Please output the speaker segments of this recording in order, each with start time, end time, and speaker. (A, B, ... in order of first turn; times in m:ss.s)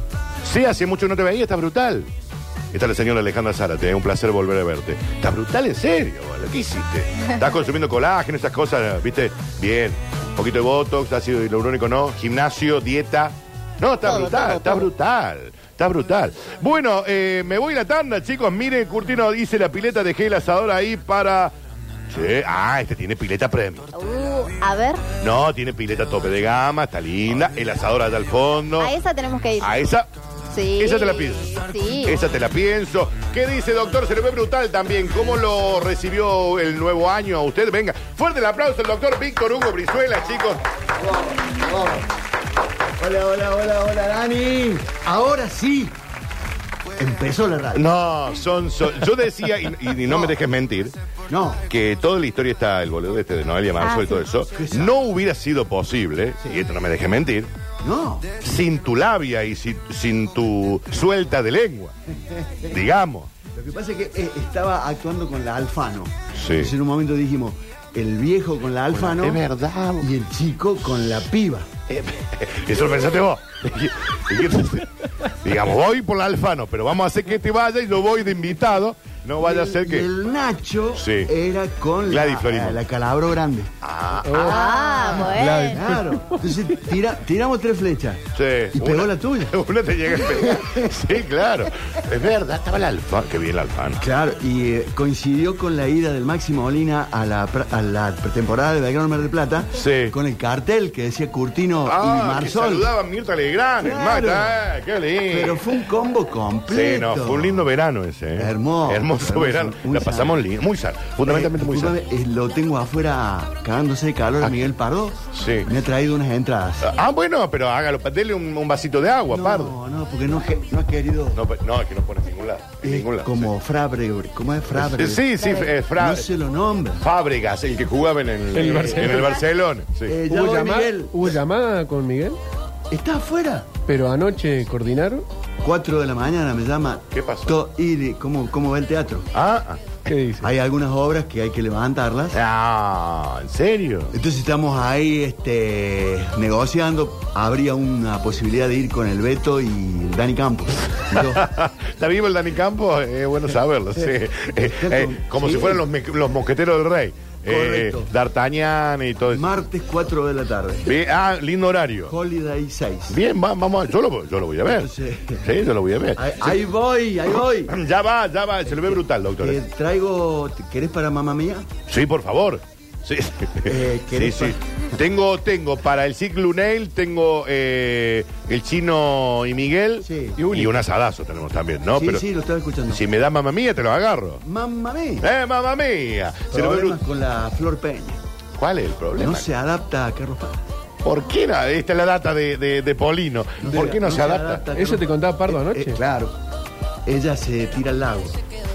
0:00.4-0:02.1 A
0:02.7-0:21.5 A
0:14.0-0:14.9 B
0:22.1-0:23.9 A
0:23.9-0:25.0 B
0:25.2-0:28.9 A
0:28.8-0:29.7 B
0:29.6-0:30.1 A
0:30.5-0:32.2 B
0:30.8-0:40.6 A
0:41.5-0:42.0 C
0:43.0-0:45.9 C
0:47.0-0:47.9 C
0:47.7-0:50.9 A
0:50.1-0:50.4 C
0:51.3-0:51.6 C
0:51.7-0:57.5 A
0:53.8-0:54.2 B
0:54.5-0:55.0 C
0:57.8-0:58.4 C
0:58.4-1:01.9 A
1:02.1-1:02.8 C
1:02.7-1:03.3 A
1:03.5-1:09.4 C
1:06.4-1:06.7 A
1:08.9-1:10.1 A
1:10.0-1:11.7 C
1:11.9-1:14.9 A
1:15.4-1:20.1 A
1:19.4-1:23.7 C
1:21.0-1:21.3 A
1:22.1-1:22.8 A
1:23.8-1:25.3 A
1:24.2-1:26.4 D
1:24.4-1:25.8 B
1:24.7-1:29.5 C
1:28.4-1:34.0 A
1:30.4-1:30.9 C
1:34.0-1:42.9 C
1:39.8-1:40.2 A
1:41.9-1:45.6 A
1:43.8-1:44.6 C
1:45.3-1:47.7 C
1:46.7-1:52.0 A
1:48.4-1:50.4 C
1:51.2-1:56.9 C
1:54.4-1:54.7 A
1:55.3-1:55.7 A
1:56.8-1:59.8 A
1:59.3-2:01.4 C
2:01.3-2:03.5 A
2:02.8-2:07.0 C
2:04.7-2:06.3 A
2:05.4-2:05.7 B
2:07.0-2:10.2 A
2:08.5-2:09.4 D
2:10.0-2:11.4 C
2:10.3-2:12.4 D
2:12.9-2:13.7 C
2:13.9-2:15.3 D
2:15.6-2:19.3 C
2:17.1-2:17.6 A
2:19.3-2:19.8 A
2:20.1-2:20.5 D
2:20.4-2:22.4 C
2:22.3-2:24.1 A
2:24.1-2:31.4 C
2:31.2-2:39.6 A
2:34.6-2:35.8 C
2:37.5-2:38.1 C
2:39.3-2:40.9 C
2:40.8-2:42.1 A
2:42.1-2:43.2 C
2:43.1-2:46.6 A
2:44.7-2:45.4 C
2:46.2-2:47.7 C
2:47.3-2:49.6 A
2:48.7-2:51.7 C
2:51.9-3:02.3 A
2:53.6-2:54.6 C
3:00.0-3:00.4 C
3:00.4-3:00.8 D
3:02.0-3:03.0 C
3:02.9-3:04.4 A
3:04.4-3:05.3 C
3:05.2-3:07.0 A
3:06.5-3:08.2 C
3:08.6-3:09.5 A
3:09.2-3:10.6 C
3:11.0-3:14.6 A
3:13.6-3:16.4 C
3:14.7-3:16.0 D
3:17.1-3:18.4 C